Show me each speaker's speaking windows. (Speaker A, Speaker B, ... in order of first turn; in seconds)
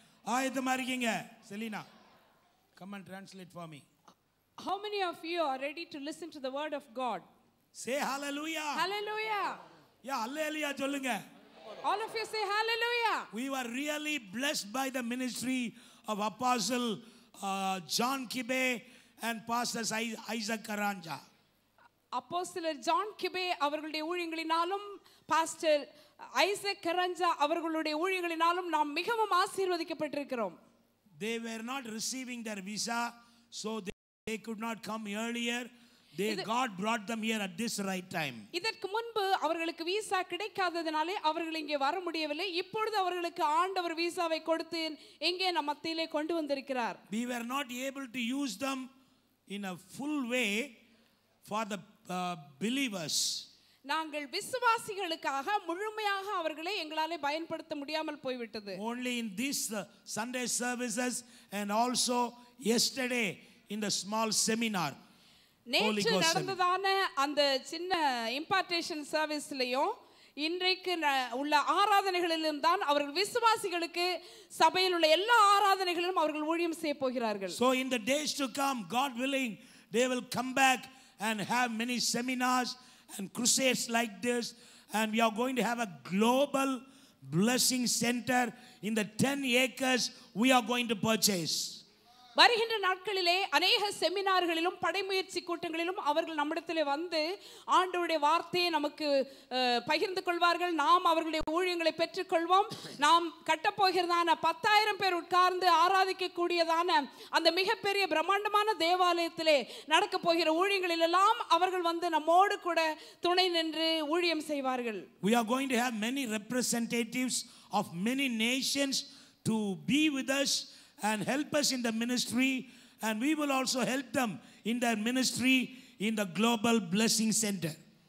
Speaker A: 0.3-1.9, 2.8-3.8, 7.8-8.8, 10.1-11.2, 13.3-21.2, 31.2-38.4, 47.1-48.9, 49.5-50.7, 51.5-53.4, 58.8-65.0, 65.8-66.5, 77.5-91.7, 115.2-127.8
Speaker B: 4.6-7.2, 8.8-9.5, 11.8-13.3, 22.2-25.8, 26.4-30.6, 38.5-47.0, 53.9-58.8, 65.7-74.1, 74.6-77.5, 92.4-97.2, 97.7-115.0